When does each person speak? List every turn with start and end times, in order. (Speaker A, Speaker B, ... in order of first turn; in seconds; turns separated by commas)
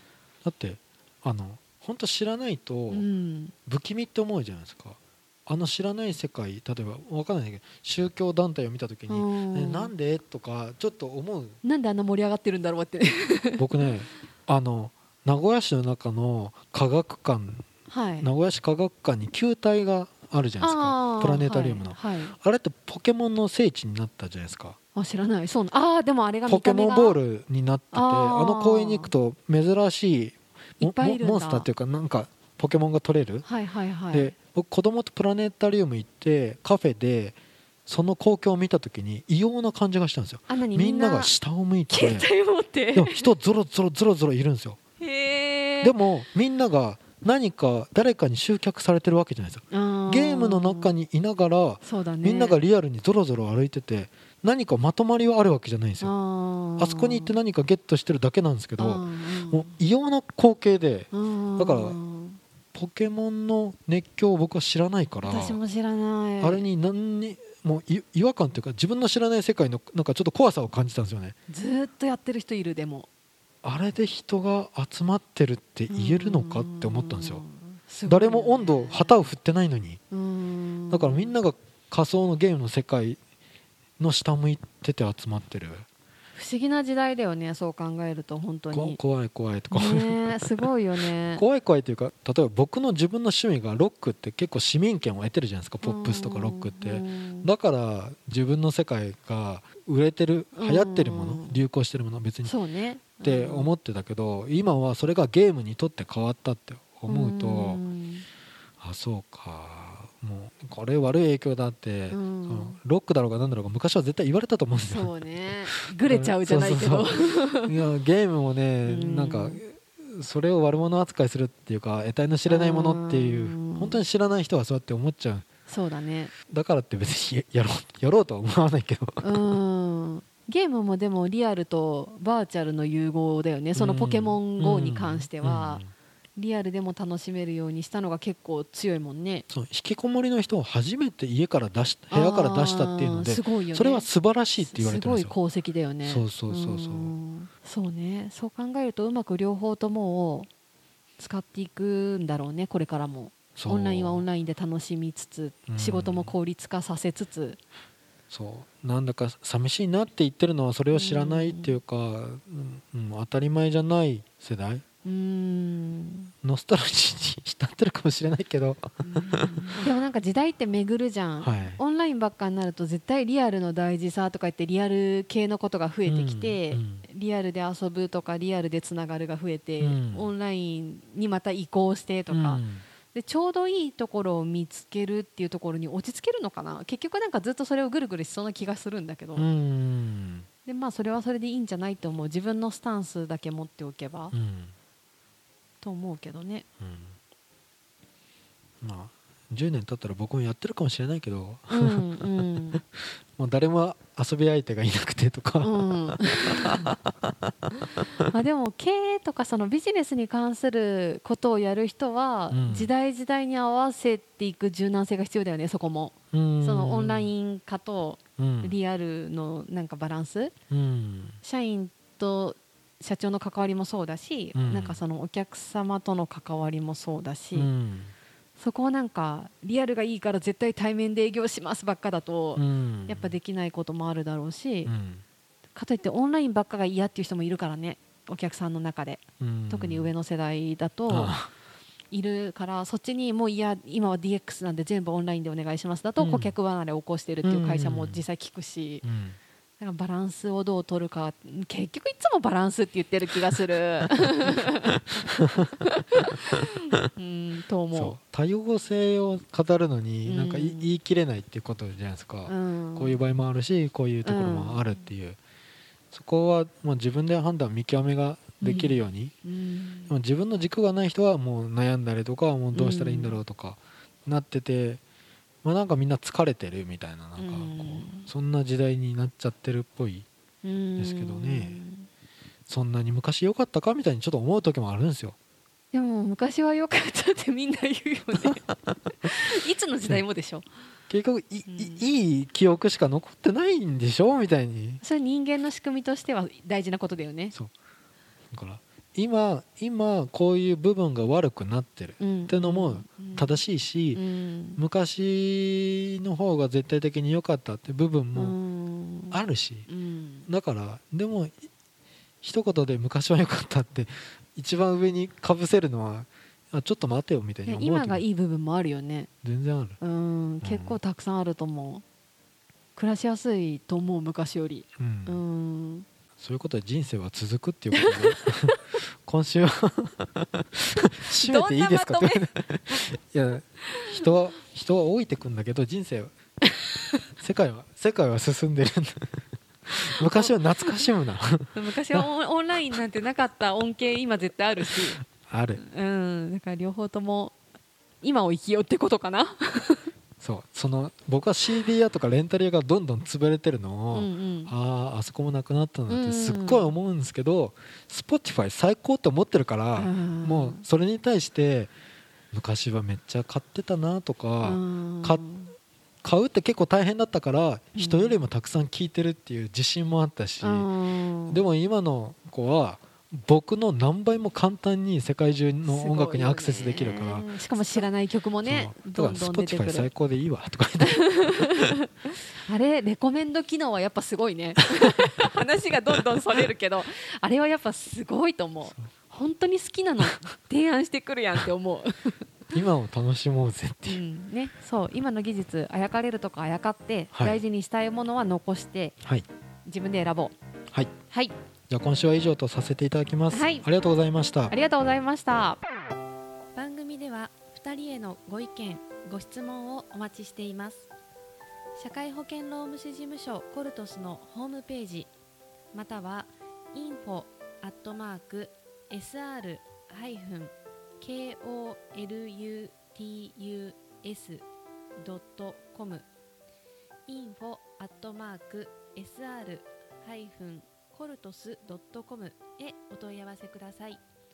Speaker A: 0.4-3.1, Speaker B: 2.9-3.5, Speaker A: 3.7-11.6, Speaker B: 9.1-9.9, Speaker B: 11.6-13.6, Speaker A: 13.6-17.7, Speaker B: 17.9-18.3, Speaker A: 18.2-24.8, Speaker B: 20.6-22.3, Speaker B: 24.9-27.2, Speaker A: 26.5-33.5, Speaker B: 27.9-29.1, Speaker B: 30.8-31.7, Speaker B: 33.4-34.3, Speaker A: 34.1-42.3, Speaker B: 40.5-41.3, Speaker B: 41.9-43.3, Speaker A: 42.9-44.8, Speaker B: 45.0-46.0, Speaker A: 45.8-56.1, Speaker B: 49.7-50.9, Speaker B: 51.8-52.6, Speaker B: 56.0-57.4, Speaker A: 56.8-62.0, Speaker B: 58.8-59.7, Speaker B: 61.1-62.4, Speaker A: 62.7-65.6, Speaker B: 65.2-66.7, Speaker A: 66.4-71.3, Speaker B: 71.5-73.1, Speaker A: 73.6-77.4, Speaker B: 75.9-79.2, Speaker A: 78.1-80.0, Speaker B: 80.1-81.3, Speaker A: 80.9-83.2, Speaker A: 84.0-85.9, Speaker B: 86.3-89.0, Speaker A: 88.7-90.7, Speaker B: 89.7-91.4, Speaker A: 91.3-102.5, Speaker B: 95.8-97.5, Speaker B: 100.6-101.6, Speaker B: 102.4-103.7, Speaker A: 103.2-107.8, Speaker B: 107.1-108.2, Speaker A: 108.8-115.1, Speaker B: 112.1-112.8, Speaker B: 114.9-117.7, Speaker A: 115.7-125.5, Speaker B: 118.8-119.6, Speaker B: 122.5-124.0, Speaker B: 125.7-126.3, Speaker A: 126.5-129.5, Speaker B: 129.2-135.8, Speaker A: 133.8-135.9, Speaker B: 136.4-139.4, Speaker A: 139.5-145.3, Speaker B: 142.1-144.1, Speaker B: 144.6-150.5, Speaker A: 146.0-147.1, Speaker B: 151.2-157.6, Speaker A: 153.6-154.2, Speaker A: 155.7-156.3, Speaker A: 158.3-164.8, Speaker B: 160.9-161.8, Speaker B: 165.0-166.3, Speaker A: 166.4-169.7, Speaker B: 169.0-182.6, Speaker A: 171.4-171.8, Speaker A: 176.1-177.0, Speaker A: 179.8-180.3, Speaker A: 182.3-182.8, Speaker B: 183.1-189.5, Speaker A: 189.3-190.5, Speaker B: 190.7-194.3, Speaker A: 194.3-194.7, Speaker B: 195.8-196.7, Speaker A: 196.8-197.2, Speaker A: 198.8-206.7, Speaker B: 201.7-202.8, Speaker B: 205.6-206.9, Speaker B: 208.2-220.5, Speaker A: 212.5-212.9, Speaker A: 216.3-217.3, Speaker A: 218.4-218.8, Speaker A: 220.7-221.4, Speaker B: 221.4-227.7, Speaker A: 224.6-225.0, Speaker A: 227.5-228.1, Speaker B: 228.6-234.9, Speaker A: 232.6-233.4, Speaker A: 234.9-235.2, Speaker B: 235.8-241.4, Speaker A: 239.4-240.1, Speaker A: 241.1-241.5, Speaker B: 242.1-249.1, Speaker A: 246.2-246.6, Speaker A: 247.4-248.2, Speaker A: 249.0-249.4, Speaker B: 249.8-255.0, Speaker B: 255.8-258.2, Speaker A: 257.9-265.4, Speaker B: 260.2-260.9, Speaker B: 262.5-263.2, Speaker B: 264.2-264.8, Speaker A: 266.1-269.4, Speaker B: 268.6-270.1, Speaker A: 270.1-275.0, Speaker B: 272.7-273.4, Speaker A: 275.6-280.3, Speaker B: 277.4-278.3, Speaker B: 280.6-282.1, Speaker A: 281.0-281.8, Speaker A: 282.7-285.4, Speaker B: 285.9-288.6, Speaker B: 289.2-290.7, Speaker A: 291.1-295.0, Speaker B: 291.7-292.0, Speaker B: 295.0-297.5, Speaker A: 298.5-304.2, Speaker B: 302.2-303.6, Speaker B: 304.1-304.8, Speaker A: 304.8-308.6, Speaker B: 308.4-310.5, Speaker A: 309.3-309.9, Speaker A: 310.5-311.6, Speaker A: 312.4-318.2, Speaker B: 317.7-319.3, Speaker A: 319.4-320.0, Speaker B: 320.0-322.0, Speaker A: 320.6-321.0, Speaker B: 323.0-326.1, Speaker A: 325.0-325.4, Speaker A: 326.4-336.3, Speaker B: 327.9-328.8, Speaker B: 331.2-332.5, Speaker A: 337.4-342.3, Speaker B: 340.2-340.6, Speaker B: 341.7-345.2, Speaker A: 345.3-345.8, Speaker B: 345.8-347.6, Speaker B: 348.2-350.1, Speaker A: 350.4-361.9, Speaker B: 354.1-354.7, Speaker B: 356.1-356.9, Speaker B: 360.0-360.8, Speaker A: 362.5-365.5, Speaker B: 364.6-365.7, Speaker A: 366.2-370.9, Speaker B: 368.0-368.4, Speaker B: 370.6-371.6, Speaker A: 371.5-378.1, Speaker B: 375.9-380.1, Speaker A: 378.6-381.9, Speaker B: 381.0-382.0, Speaker B: 382.6-392.5, Speaker A: 392.7-394.2, Speaker B: 394.1-399.1, Speaker A: 397.3-397.6, Speaker B: 399.9-400.6, Speaker B: 401.3-401.6, Speaker A: 401.9-404.8, Speaker B: 403.5-403.9, Speaker B: 404.7-405.8, Speaker B: 406.8-411.1, Speaker B: 412.0-415.3, Speaker B: 415.9-424.7, Speaker B: 425.2-426.3, Speaker B: 427.3-434.2